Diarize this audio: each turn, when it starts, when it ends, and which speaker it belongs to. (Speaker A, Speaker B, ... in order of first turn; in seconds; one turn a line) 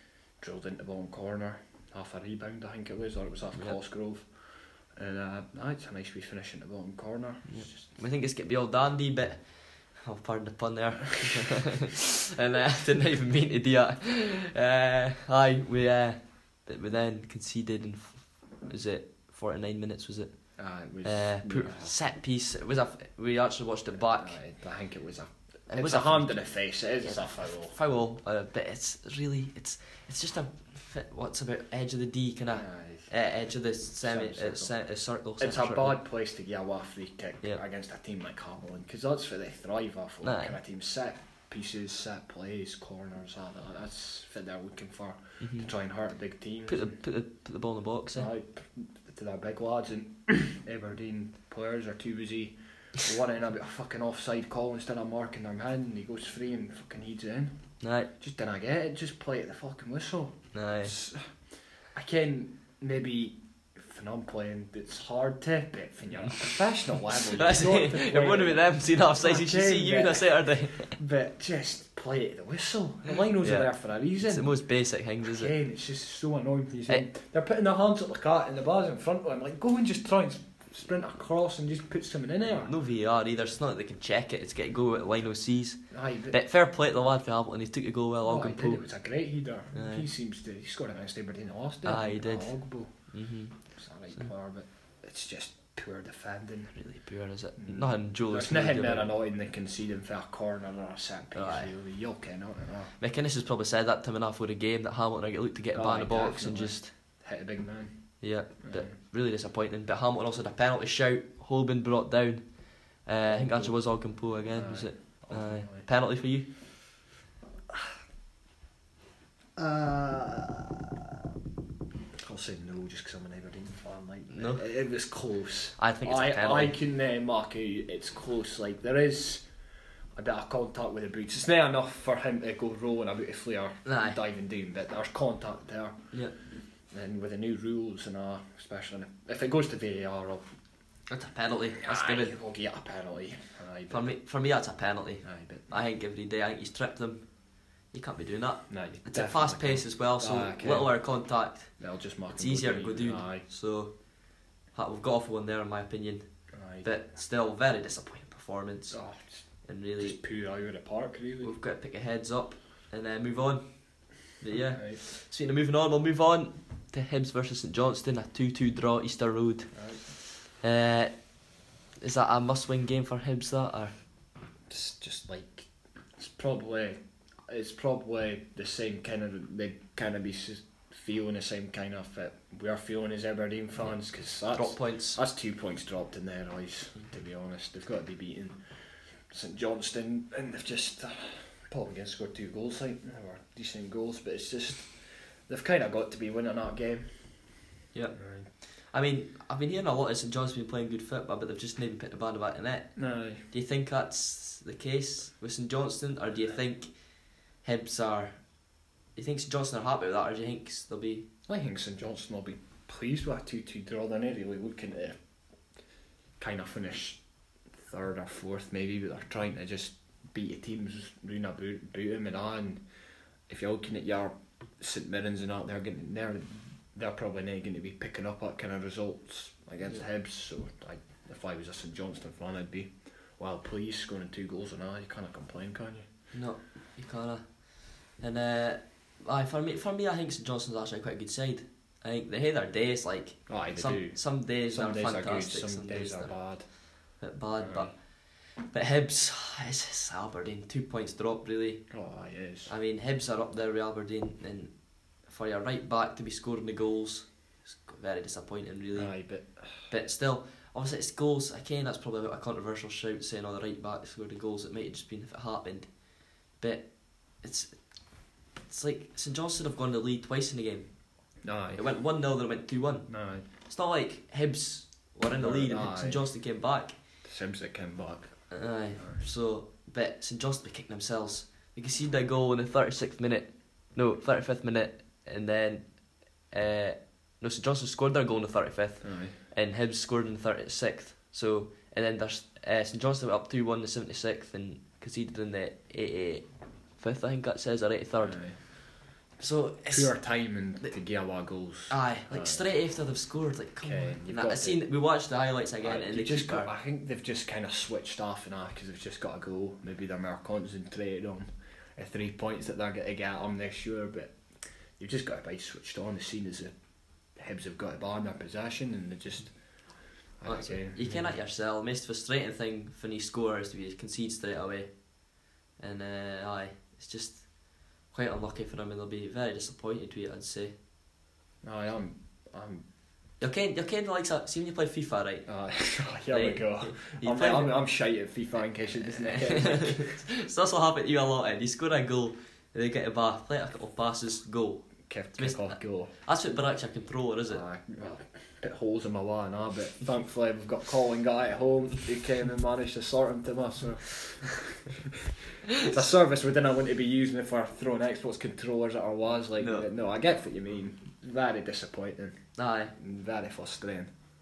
Speaker A: 0.4-8.0
Speaker B: 7.5-24.4
Speaker A: 20.6-21.9
Speaker A: 23.9-27.7
Speaker B: 25.7-36.0
Speaker A: 32.5-33.1
Speaker A: 34.0-34.8
Speaker A: 35.4-47.0
Speaker B: 40.2-40.5
Speaker B: 45.4-45.7
Speaker B: 46.7-48.3
Speaker A: 48.1-74.6
Speaker B: 57.8-58.1
Speaker B: 60.5-60.9
Speaker B: 66.2-66.5
Speaker B: 67.1-71.0
Speaker B: 73.4-73.7
Speaker B: 74.2-75.5
Speaker A: 75.2-82.7
Speaker B: 82.6-88.8
Speaker A: 85.9-86.4
Speaker A: 88.2-93.1
Speaker B: 89.7-90.0
Speaker B: 91.8-93.6
Speaker A: 93.7-96.7
Speaker B: 96.7-99.1
Speaker A: 97.6-102.9
Speaker B: 101.3-101.7
Speaker B: 103.0-106.9
Speaker A: 105.7-108.9
Speaker B: 108.2-116.5
Speaker A: 113.2-115.9
Speaker A: 119.5-121.2
Speaker A: 122.2-129.5
Speaker B: 124.3-124.6
Speaker B: 125.8-126.7
Speaker A: 130.1-136.1
Speaker B: 133.8-134.2
Speaker A: 136.9-140.4
Speaker B: 141.1-142.3
Speaker A: 141.8-144.1
Speaker B: 143.9-147.4
Speaker A: 145.2-145.8
Speaker B: 147.9-151.8
Speaker A: 148.7-151.0
Speaker A: 151.7-153.4
Speaker B: 152.3-154.1
Speaker B: 154.7-159.0
Speaker A: 156.5-156.9
Speaker A: 158.9-161.5
Speaker B: 159.6-160.2
Speaker B: 161.4-171.3
Speaker A: 164.7-165.0
Speaker A: 169.7-170.1
Speaker B: 172.0-173.9
Speaker A: 174.7-197.5
Speaker B: 184.5-185.2
Speaker B: 197.9-208.4
Speaker A: 198.1-198.5
Speaker A: 202.9-203.4
Speaker B: 209.1-211.2
Speaker A: 211.5-215.2
Speaker A: 216.4-217.2
Speaker A: 217.8-222.8
Speaker A: 223.5-236.1
Speaker B: 236.3-246.4
Speaker A: 243.5-246.7
Speaker B: 247.2-251.9
Speaker A: 247.6-247.9
Speaker A: 251.9-252.7
Speaker B: 252.7-259.2
Speaker A: 258.9-259.9
Speaker B: 259.9-271.0
Speaker A: 271.4-271.8
Speaker B: 271.7-276.9
Speaker A: 273.1-273.4
Speaker A: 275.3-276.2
Speaker A: 277.2-279.2
Speaker B: 278.5-298.5
Speaker A: 289.0-289.3
Speaker A: 298.2-298.6
Speaker B: 299.4-300.2
Speaker A: 299.9-302.7
Speaker B: 301.9-306.7
Speaker A: 303.8-304.8
Speaker A: 305.8-314.4
Speaker A: 315.0-316.7
Speaker A: 317.3-321.3
Speaker B: 320.4-325.2
Speaker B: 325.8-330.7
Speaker A: 331.6-332.8
Speaker B: 333.4-335.5
Speaker A: 335.4-340.1
Speaker B: 336.3-337.7
Speaker B: 339.1-347.6
Speaker A: 345.1-346.1
Speaker A: 347.5-364.1
Speaker B: 359.6-359.9
Speaker B: 362.6-362.9